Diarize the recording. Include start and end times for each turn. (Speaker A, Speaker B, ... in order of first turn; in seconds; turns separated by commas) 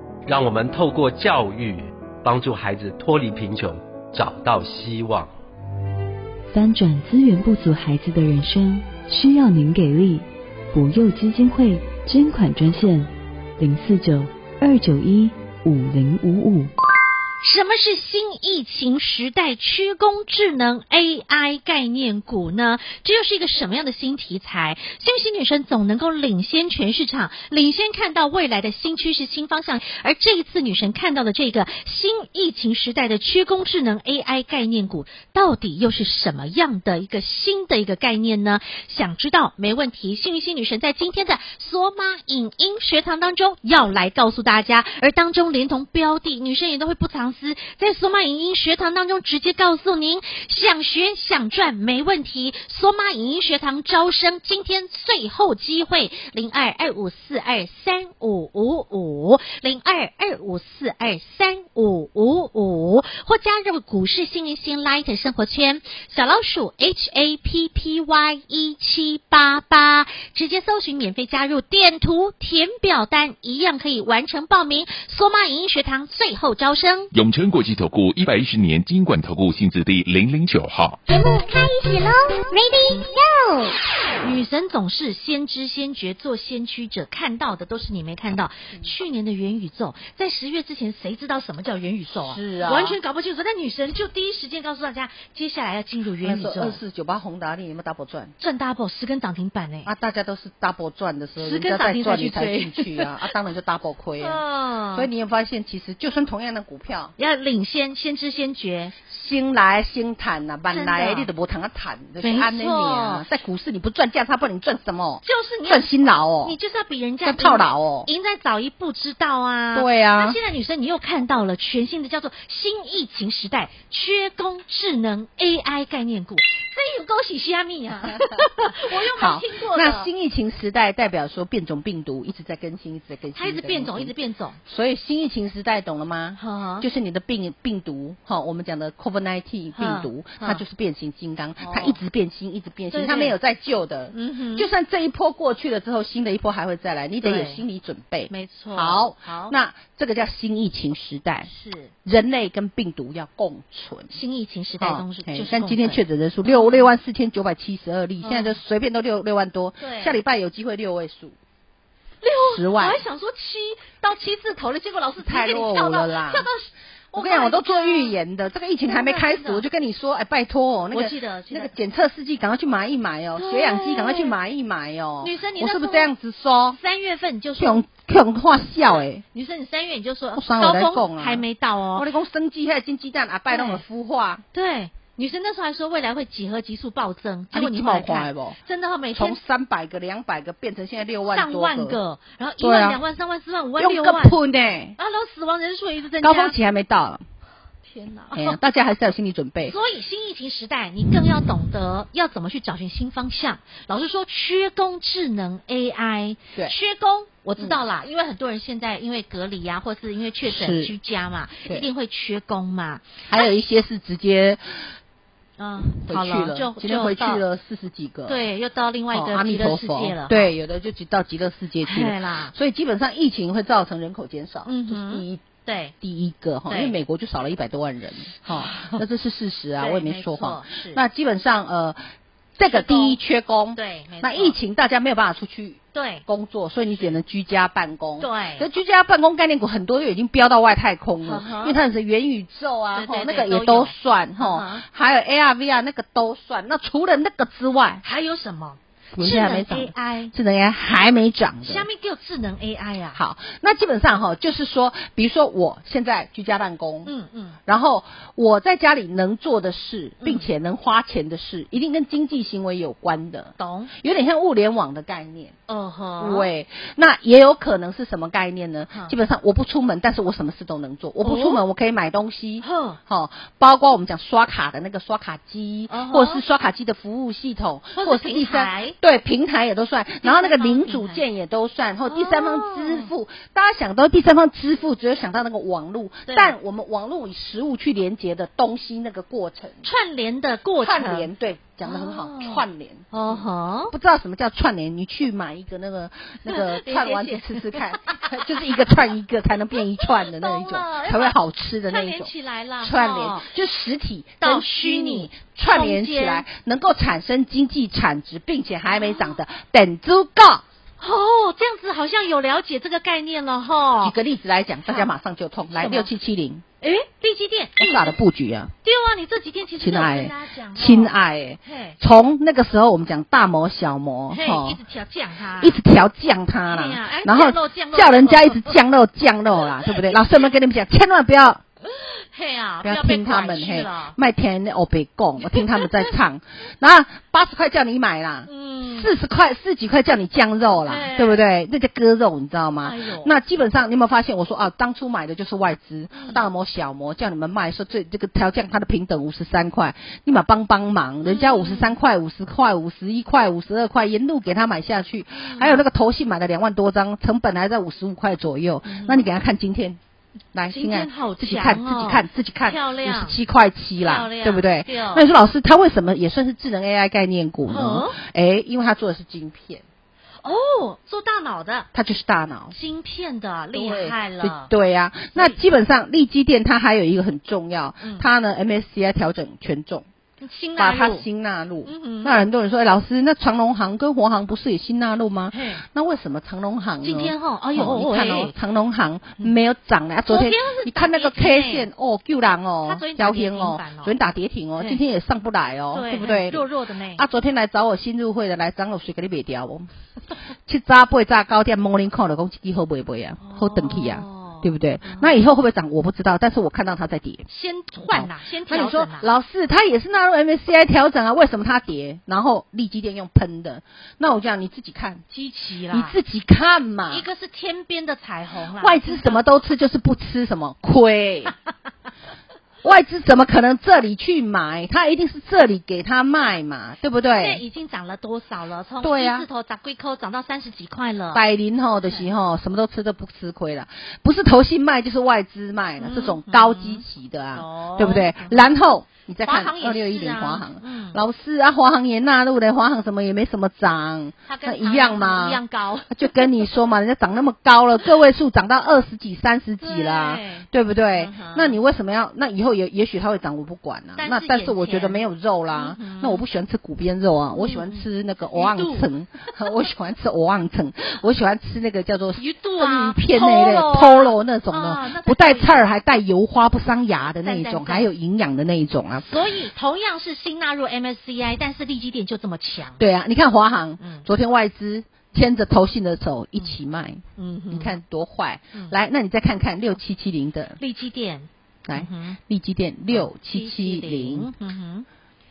Speaker A: 0.2-5.3, Speaker B: 6.5-16.7, Speaker C: 17.4-77.1, Speaker D: 77.1-81.0, Speaker E: 81.1-83.8, Speaker C: 84.2-96.8, Speaker F: 92.2-93.0, Speaker F: 96.2-98.3, Speaker C: 98.4-99.9, Speaker F: 99.8-107.1, Speaker C: 101.4-103.1, Speaker C: 104.2-105.1, Speaker C: 107.2-109.0, Speaker F: 109.1-116.6, Speaker C: 110.7-111.3, Speaker C: 112.2-113.2, Speaker C: 115.2-115.9, Speaker C: 116.4-130.1, Speaker F: 117.2-118.1, Speaker F: 119.7-120.4, Speaker F: 128.3-134.1, Speaker C: 133.3-134.6, Speaker F: 134.7-151.5, Speaker C: 136.4-136.8, Speaker C: 139.8-140.6, Speaker C: 141.6-142.0, Speaker C: 142.9-143.3, Speaker C: 144.1-144.7, Speaker C: 147.2-147.6, Speaker C: 148.3-149.5, Speaker C: 151.5-151.9, Speaker F: 152.0-154.1, Speaker C: 154.1-156.9, Speaker F: 154.8-161.3, Speaker C: 158.2-158.6, Speaker C: 159.8-160.2, Speaker C: 162.2-168.2, Speaker F: 162.4-163.0, Speaker F: 165.2-166.4, Speaker F: 167.1-176.8, Speaker C: 168.8-169.6, Speaker C: 170.9-171.7, Speaker C: 173.4-174.3, Speaker C: 175.2-176.1, Speaker C: 176.7-177.8, Speaker F: 177.6-179.2, Speaker C: 178.9-182.1, Speaker F: 180.3-184.4, Speaker C: 183.5-183.8, Speaker C: 184.5-189.4, Speaker F: 187.5-188.6, Speaker F: 189.1-192.0, Speaker C: 191.3-194.4, Speaker F: 192.6-193.0, Speaker F: 193.8-194.9, Speaker C: 195.0-196.6, Speaker F: 196.2-197.2, Speaker C: 197.8-198.6, Speaker F: 198.3-199.8, Speaker C: 199.6-213.4, Speaker F: 210.4-210.9, Speaker F: 213.3-214.6, Speaker C: 215.6-217.4, Speaker F: 215.8-218.4, Speaker C: 218.3-220.5, Speaker F: 219.1-225.4, Speaker C: 221.8-222.5, Speaker C: 224.7-225.9, Speaker F: 226.0-232.0, Speaker C: 226.7-226.9, Speaker C: 228.5-229.0, Speaker C: 229.8-231.0, Speaker F: 232.6-248.0, Speaker C: 232.7-233.2, Speaker C: 233.7-234.6, Speaker C: 235.9-236.2, Speaker C: 238.2-238.7, Speaker C: 241.2-241.8, Speaker C: 242.9-244.8, Speaker C: 248.0-250.3, Speaker F: 249.1-251.9, Speaker C: 251.6-253.2, Speaker F: 253.1-257.1, Speaker C: 257.1-257.6, Speaker F: 257.7-265.6, Speaker C: 260.2-260.5, Speaker C: 263.6-263.9, Speaker C: 265.7-266.5, Speaker F: 266.2-289.8, Speaker C: 271.2-271.6, Speaker C: 272.6-273.0, Speaker C: 275.9-276.4, Speaker C: 277.9-278.9, Speaker C: 280.2-281.2, Speaker C: 282.1-283.1, Speaker C: 286.3-286.5, Speaker C: 289.8-291.3, Speaker F: 290.8-310.6, Speaker C: 291.8-293.9, Speaker C: 296.5-298.5, Speaker C: 300.0-301.4, Speaker C: 301.9-303.5, Speaker C: 304.4-306.4, Speaker C: 308.9-309.3, Speaker C: 311.0-314.1, Speaker F: 314.0-316.6, Speaker C: 315.7-316.1, Speaker C: 316.8-318.1, Speaker F: 317.8-318.7, Speaker C: 318.8-321.1, Speaker F: 319.8-324.8, Speaker C: 321.6-321.9, Speaker C: 324.3-325.8, Speaker F: 325.6-331.6, Speaker C: 326.6-328.8, Speaker C: 329.8-330.2, Speaker C: 331.8-334.1, Speaker F: 332.8-360.0, Speaker C: 335.4-336.1, Speaker C: 338.5-339.1, Speaker C: 340.8-341.4, Speaker C: 342.8-343.3, Speaker C: 346.1-346.4, Speaker C: 351.2-351.9, Speaker C: 355.4-355.8, Speaker C: 358.8-359.2, Speaker F: 360.5-369.8, Speaker C: 360.7-363.4, Speaker C: 364.0-365.2, Speaker C: 367.7-368.2, Speaker C: 370.4-371.9, Speaker F: 371.9-372.7, Speaker C: 372.7-374.7, Speaker F: 373.7-380.1, Speaker C: 378.0-378.3, Speaker C: 380.4-381.2, Speaker F: 380.8-399.9, Speaker C: 381.9-382.5, Speaker C: 385.5-385.8, Speaker C: 387.0-388.5, Speaker C: 390.3-391.9, Speaker C: 392.8-394.1, Speaker C: 395.9-397.2, Speaker F: 400.6-407.4, Speaker C: 403.4-405.4, Speaker C: 407.5-409.3, Speaker F: 408.0-415.2, Speaker C: 415.3-416.1, Speaker F: 415.9-417.2, Speaker C: 417.1-419.4, Speaker F: 418.8-421.5, Speaker F: 422.8-427.6, Speaker C: 427.3-431.4, Speaker F: 429.0-429.5, Speaker F: 431.3-469.3, Speaker C: 436.0-437.0, Speaker C: 437.6-438.6, Speaker C: 439.4-441.2, Speaker C: 444.5-446.5, Speaker C: 449.8-451.8, Speaker C: 454.2-456.4, Speaker C: 457.6-458.0, Speaker C: 458.5-459.1, Speaker C: 462.4-465.9, Speaker C: 467.4-468.1, Speaker C: 469.2-473.0, Speaker F: 473.0-480.8, Speaker C: 474.0-474.2, Speaker C: 477.4-477.9, Speaker C: 480.8-482.4, Speaker F: 481.9-484.5, Speaker C: 483.1-485.1